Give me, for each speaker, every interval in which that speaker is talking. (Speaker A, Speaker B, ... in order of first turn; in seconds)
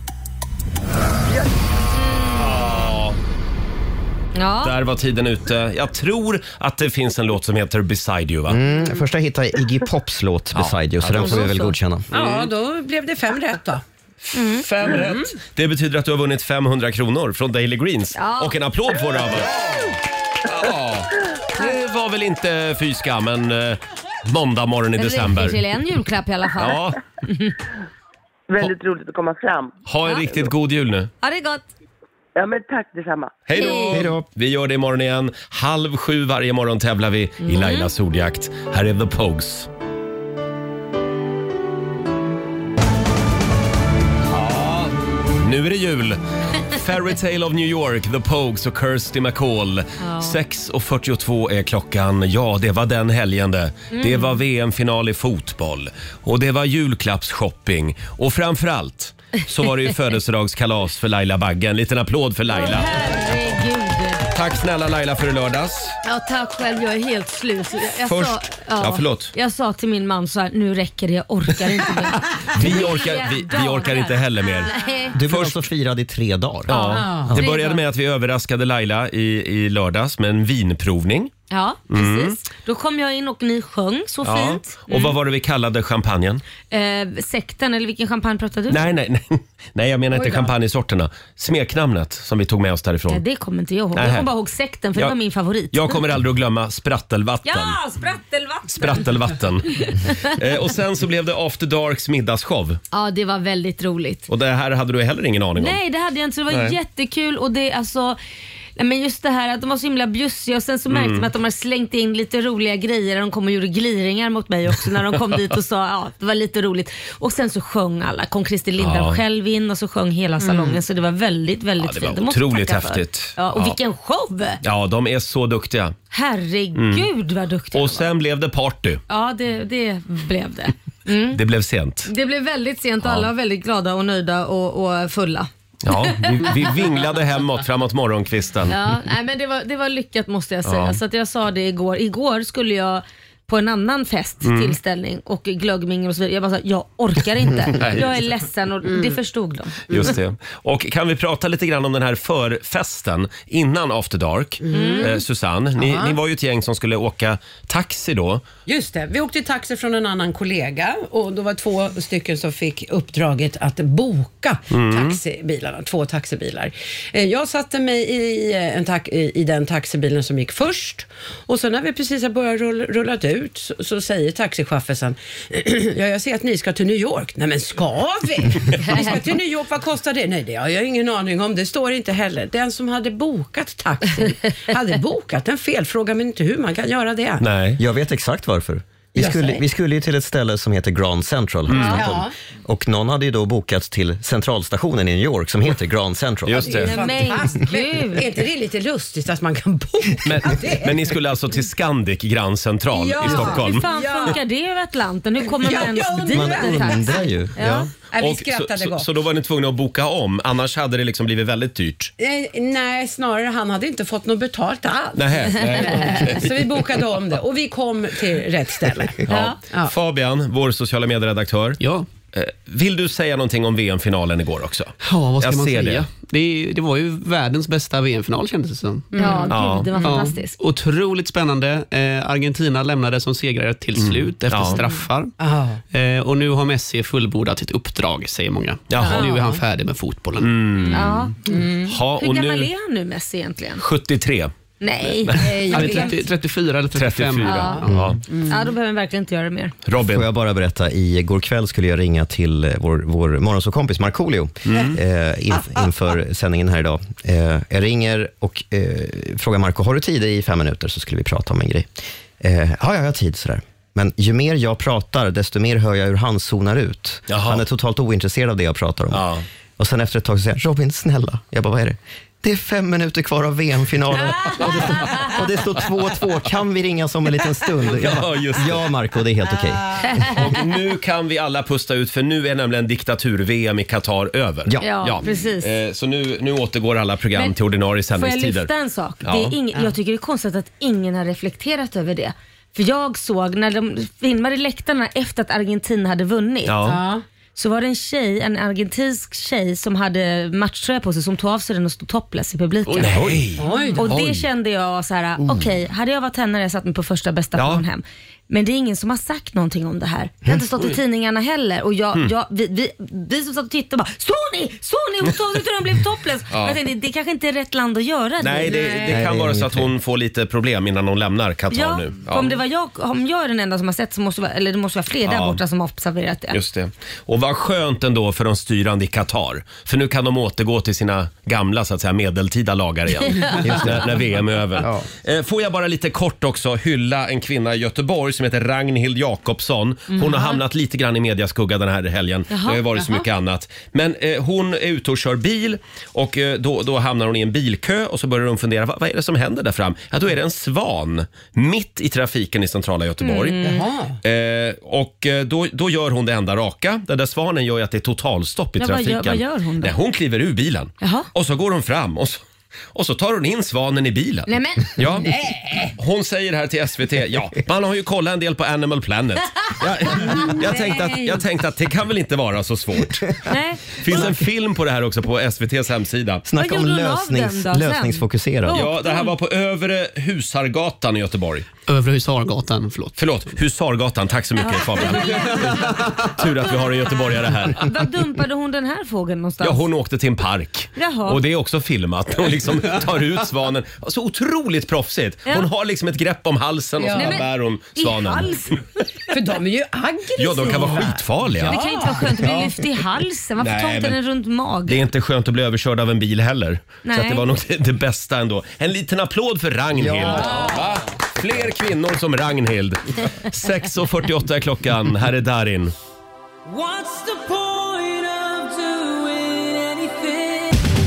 Speaker A: 1.3-1.5, 28.5-29.8, 32.4-33.4
Speaker B: 2.1-2.5, 4.3-4.7, 11.1-11.8, 14.3-14.7, 18.1-18.6, 25.0-27.5, 30.1-30.5, 31.2-31.7, 33.5-34.1, 37.4-37.9, 50.0-50.4, 53.9-54.4, 62.5-64.2, 66.0-75.1, 76.7-77.8, 81.5-85.2, 86.7-88.9, 90.1-90.5, 93.1-96.0, 97.5-99.1, 99.8-100.3, 102.9-104.3, 105.6-108.2, 108.8-124.6, 126.1-128.1, 129.1-131.4, 132.1-135.5, 136.1-136.6, 138.7-149.9, 154.7-155.2, 191.7-192.0, 196.8-198.3, 203.2-207.9, 219.3-219.6, 229.2-230.6, 240.9-243.8, 244.8-246.2, 247.4-247.8, 248.5-249.7, 284.8-285.7, 288.1-296.8, 297.6-303.2, 303.9-319.0, 321.7-326.6, 340.1-340.6, 342.5-342.9, 353.2-353.9, 358.8-360.0, 361.0-361.3, 364.5-365.0, 370.6-371.2, 373.5-374.0, 376.6-379.3, 384.6-389.8, 391.0-391.4, 397.1-398.8, 401.7-405.0, 407.1-407.4, 416.7-420.7
Speaker C: 2.4-3.2, 4.6-8.6, 10.5-11.5, 12.1-12.5, 14.2-19.6, 20.5-25.6, 26.6-27.0, 29.9-31.1, 33.5-39.7, 44.4-44.9, 45.4-63.0, 64.3-66.0, 68.0-69.3, 72.5-74.7, 75.3-75.7, 76.7-81.3, 81.9-82.4, 84.2-86.4, 88.7-93.2, 94.0-94.3, 95.7-97.8, 98.7-102.8, 104.3-105.8, 106.5-106.8, 110.9-111.3, 118.8-119.2, 121.8-123.8, 124.6-126.0, 126.8-127.1, 127.7-129.0, 131.3-132.1, 133.0-133.3, 135.8-138.8, 140.7-141.0, 144.4-144.8, 147.8-148.2, 149.9-158.4, 164.7-165.2, 187.4-187.8, 191.7-192.1, 196.4-197.0, 200.2-204.4, 208.2-212.1, 215.2-216.9, 219.3-221.8, 222.3-226.1, 229.5-229.9, 234.0-234.8, 238.9-239.3, 240.4-241.3, 241.8-242.7, 243.8-244.5, 245.2-246.0, 246.9-248.2, 249.9-250.3, 254.7-255.0, 267.3-267.6, 269.1-269.4, 274.6-275.2, 277.8-278.9, 280.2-288.7, 289.2-289.6, 296.7-297.0, 302.9-304.5, 307.6-307.8, 316.5-316.8, 318.4-322.6, 325.3-325.6, 326.5-353.6, 354.2-362.4, 362.9-376.4, 378.7-381.7, 383.2-387.9, 389.6-398.6, 400.4-402.7, 403.6-404.2, 404.9-415.9
Speaker D: 8.5-12.1, 33.9-34.3, 75.1-77.4, 187.8-196.9, 206.3-207.9, 247.9-248.2, 250.0-280.1, 284.7-285.1, 319.1-319.9, 333.6-334.2, 334.8-335.1, 376.4-378.9, 409.9-410.8
Speaker E: 12.1-13.8, 76.9-77.3, 120.4-120.8, 154.6-155.2, 155.8-156.2, 158.7-187.5, 189.2-189.6, 191.9-192.3, 196.6-201.1, 202.9-204.4, 205.5-207.4, 208.1-209.1, 212.2-219.9, 229.1-229.6, 235.4-235.8, 239.1-239.6, 241.5-241.9, 245.4-246.1, 248.3-248.6, 296.8-297.2, 303.6-304.1, 318.7-319.2, 353.6-354.2, 365.2-365.9, 397.0-397.4, 399.3-402.3
Speaker F: 221.8-222.1, 225.0-229.1, 230.0-235.3, 235.9-240.6, 245.7-248.1, 381.9-383.3